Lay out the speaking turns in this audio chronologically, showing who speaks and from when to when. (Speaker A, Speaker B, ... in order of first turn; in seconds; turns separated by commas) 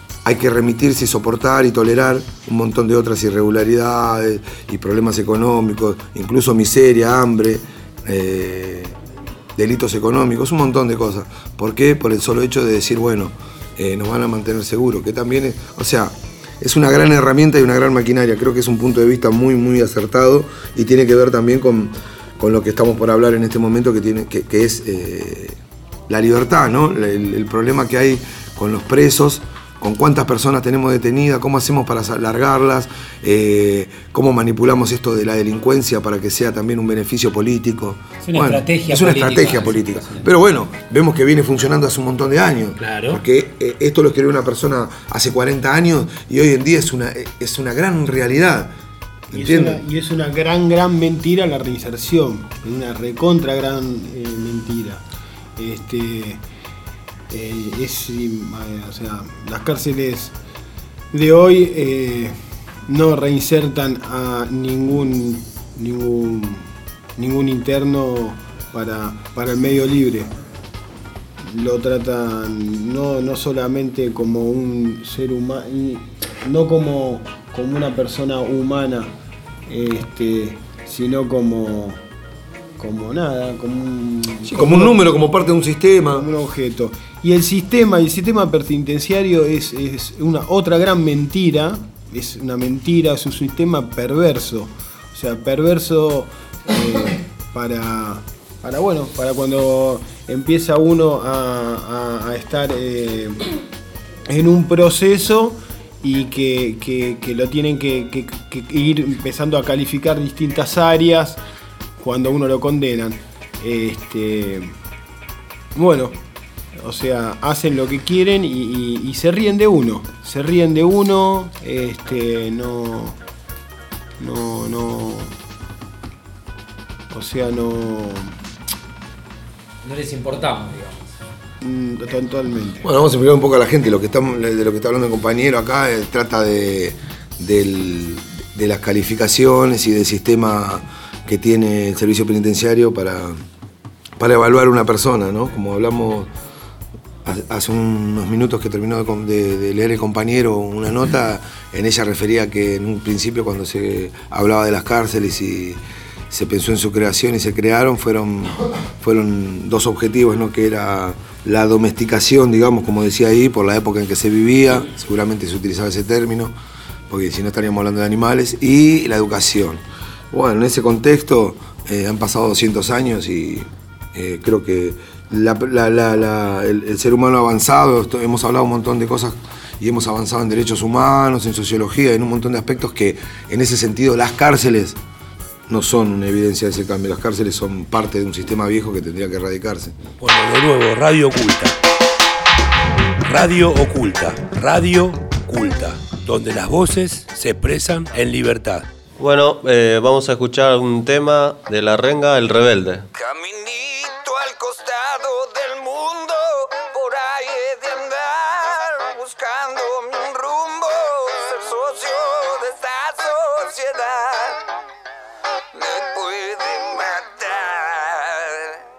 Speaker A: 0.2-8.9, Speaker A: 9.6-48.7, Speaker B: 38.2-40.3, Speaker B: 42.8-43.2, Speaker A: 49.3-49.8, Speaker C: 49.3-55.0, Speaker C: 55.6-56.4, Speaker C: 57.3-60.3, Speaker C: 61.1-62.4, Speaker C: 62.9-66.7, Speaker C: 67.2-70.3, Speaker C: 71.5-79.1, Speaker C: 79.7-82.0, Speaker C: 82.8-85.0, Speaker A: 84.5-86.3, Speaker C: 86.1-103.4, Speaker C: 104.3-111.4, Speaker C: 112.0-114.7, Speaker C: 115.8-116.2, Speaker C: 116.8-123.2, Speaker C: 124.2-125.3, Speaker C: 127.1-128.3, Speaker B: 129.8-131.1, Speaker C: 131.6-132.8, Speaker A: 132.8-143.4, Speaker A: 144.2-146.3, Speaker A: 147.2-166.6, Speaker A: 167.1-185.0, Speaker A: 185.7-190.0, Speaker D: 190.2-191.8, Speaker D: 193.2-198.9, Speaker E: 199.2-203.1, Speaker F: 203.2-214.6, Speaker F: 215.7-218.5